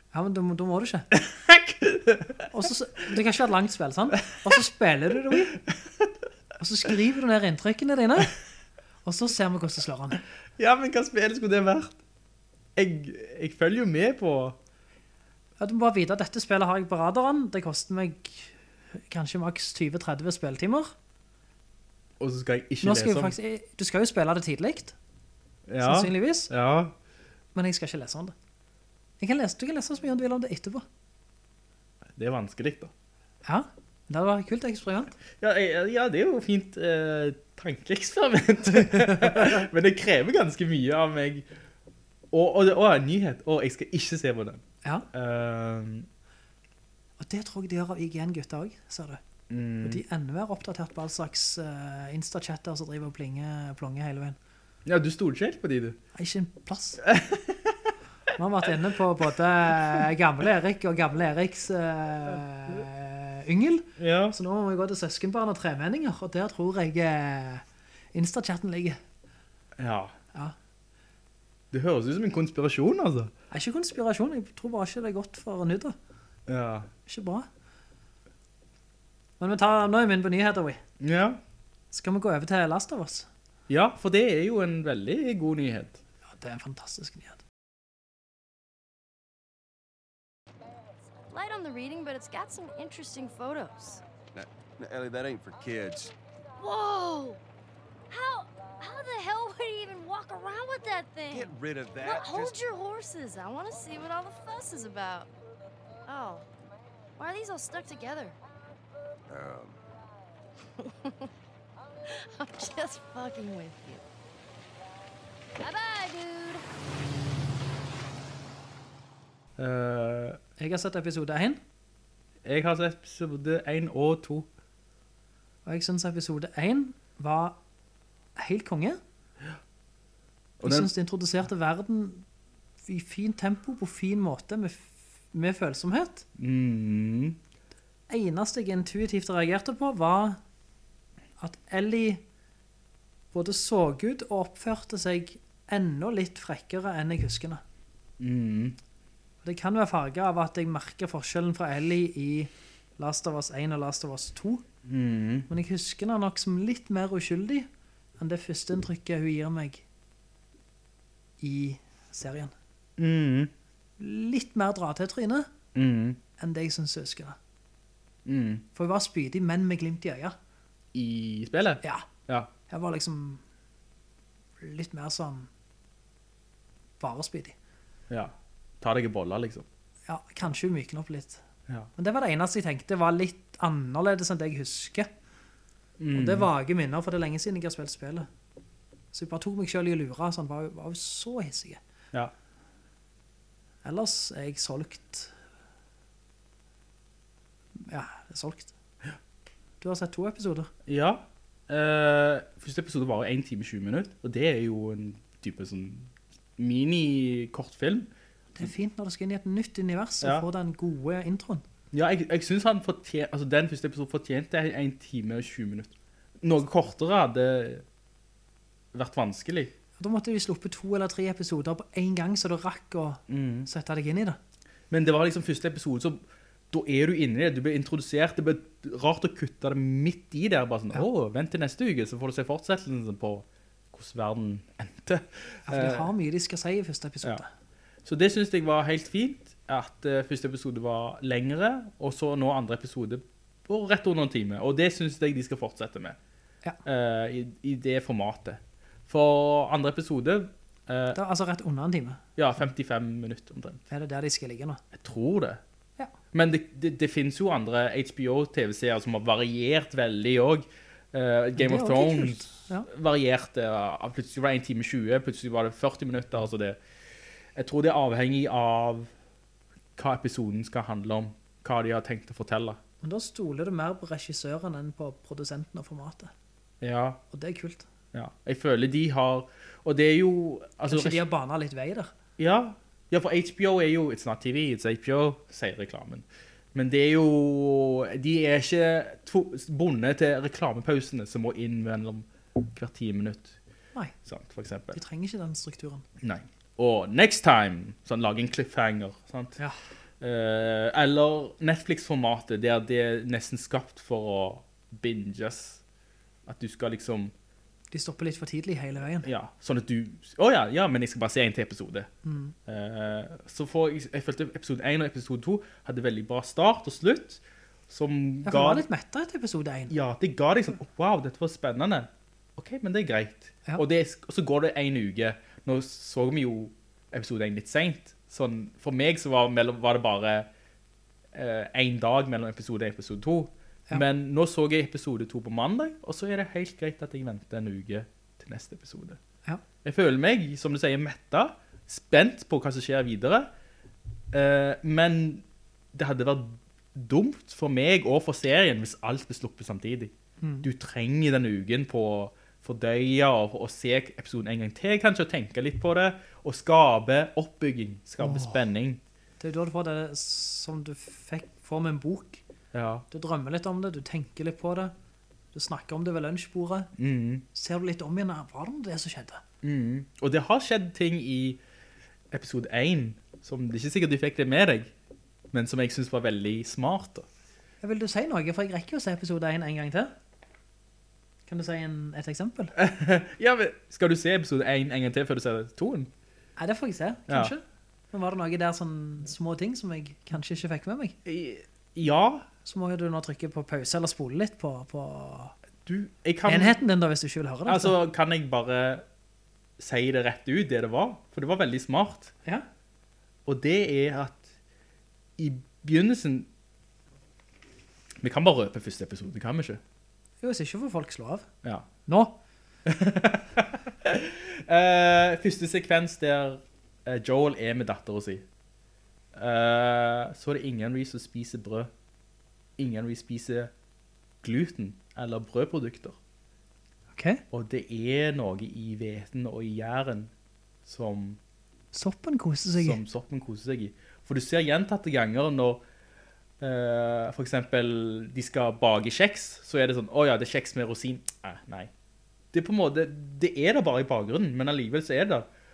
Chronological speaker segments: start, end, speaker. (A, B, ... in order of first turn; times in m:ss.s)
0:00.1-0:01.1 A
0:01.1-0:02.5 B
0:02.5-0:05.6 A
0:05.3-0:06.1 B
0:06.6-0:08.3 A
0:09.0-0:10.2 A
0:10.6-0:12.0 B
0:12.8-0:14.6 B
0:15.6-0:18.5 A
0:19.0-0:20.9 A
0:22.2-0:23.4 B
0:22.8-0:25.0 A
0:25.7-0:26.9 B
0:25.8-0:26.5 A
0:27.5-0:28.3 A
0:29.2-0:30.8 A
0:32.2-0:32.9 B
0:33.4-0:35.2 A
0:35.4-0:41.5 B
0:38.9-0:39.5 A
0:42.3-0:46.1 B
0:47.2-0:49.2 A
0:49.5-0:50.0 B
0:49.8-0:54.4 A
0:54.8-0:56.0 B
0:56.1-0:57.0 A
0:57.0-0:57.9 B
0:58.4-1:09.0 A
1:04.0-1:04.4 B
1:09.8-1:10.1 B
1:11.7-1:13.3 B
1:13.5-1:16.0 A
1:16.5-1:16.9 B
1:17.1-1:17.5 A
1:19.4-1:20.8 A
1:21.0-1:21.4 B
1:21.9-1:23.3 A
1:23.7-1:26.0 B
1:26.3-1:27.4 A
1:31.3-1:34.0 C
1:34.3-1:36.1 D
1:36.6-1:37.4 C
1:38.1-1:45.3 C
1:41.3-1:42.6 D
1:46.1-1:46.4 C
1:47.2-1:48.4 C
1:49.3-1:49.8 D
1:50.8-1:51.3 C
1:52.0-1:54.0 C
1:55.6-1:56.6 C
1:59.6-2:00.4 B
2:00.6-2:01.6 A
2:02.4-2:04.5 B
2:05.6-2:07.6 A
2:08.4-2:09.0 A
2:10.6-2:10.9 B
2:10.6-2:12.2 A
2:12.8-2:16.2 A
2:16.4-2:17.4 B
2:18.1-2:20.4 A
2:21.4-2:22.2 A
2:23.3-2:27.6 A
2:28.2-2:28.8 B
2:29.4-2:34.6 A
2:34.8-2:35.5 B
2:35.5-2:37.7 A
2:38.2-2:39.8 A
2:41.4-2:42.5 A
2:43.0-2:43.5 B
2:44.0-2:45.5 A
2:45.7-2:46.2 B
2:46.4-2:47.4 A
2:48.2-2:48.6 B
2:48.7-2:50.4 A
2:50.9-2:52.5 B
2:51.8-2:52.1 A
2:52.7-2:53.4 A
2:54.6-2:55.5 A
2:57.0-2:57.6 A
2:58.1-2:59.6 B
3:00.1-3:01.4 A
3:02.0-3:05.1 A
3:06.0-3:06.5 B
3:06.1-3:08.3 A
3:09.1-3:11.8 A
3:13.8-3:15.3 A
3:17.8-3:18.7 A
3:19.8-3:20.7 A
3:20.8-3:28.7 B
3:28.5-3:31.6 A
3:31.9-3:37.8 B
3:38.9-3:39.7 B
3:40.0-3:44.4 A
3:43.3-3:43.7 B
3:44.9-3:56.1 B
3:55.7-3:57.5 A
3:58.0-4:06.2 B
4:06.8-4:11.2 B
4:11.1-4:12.2 A
4:12.4-4:13.8 B
4:13.9-4:14.8 A
4:14.9-4:15.6 B
4:16.3-4:26.8 B
4:21.6-4:22.9 A
4:27.5-4:29.1 B
4:30.0-4:32.8 B
4:33.0-4:36.3 A
4:36.8-4:37.2 B
4:37.3-4:37.9 A
4:38.1-4:41.2 B
4:40.9-4:42.1 A
4:42.4-4:53.6 B
4:54.2-4:55.0 B
4:54.9-4:56.0 A
4:56.2-4:59.6 B
5:00.2-5:05.8 B
5:06.4-5:07.3 B
5:07.9-5:09.3 A
5:09.2-5:12.1 B
5:12.2-5:12.5 A
5:12.6-5:18.8 B
5:18.4-5:19.9 A
5:19.9-5:30.5 B
5:31.3-5:39.2 B
5:39.8-5:43.5 B
5:44.3-5:59.0 B
5:50.4-5:50.7 A
5:58.2-5:58.6 A
5:59.4-6:02.4 A
6:02.7-6:03.0 B
6:03.1-6:04.9 A
6:05.5-6:06.9 A
6:07.0-6:07.4 B
6:07.5-6:09.4 A
6:09.6-6:11.6 B
6:12.3-6:14.9 B
6:15.5-6:17.3 B
6:17.8-6:20.1 A
6:21.5-6:22.7 A
6:22.8-6:26.1 B
6:26.6-6:31.2 A
6:27.3-6:27.5 B
6:31.2-6:32.5 B
6:32.6-6:35.6 A
6:35.8-6:36.8 B
6:36.4-6:38.0 A
6:37.7-6:39.0 B
6:39.8-6:42.3 B
6:43.4-6:44.4 B
6:45.4-6:46.5 B
6:48.2-6:49.8 B
6:50.4-6:51.5 A
6:52.0-6:52.4 A
6:52.8-6:58.4 B
6:59.3-7:01.9 B
7:02.8-7:03.7 B
7:04.4-7:06.2 B
7:07.1-7:07.4 A
7:07.5-7:10.3 B
7:10.8-7:11.4 B
7:11.9-7:13.0 A
7:12.8-7:15.8 B
7:16.6-7:21.9 B
7:22.5-7:25.5 B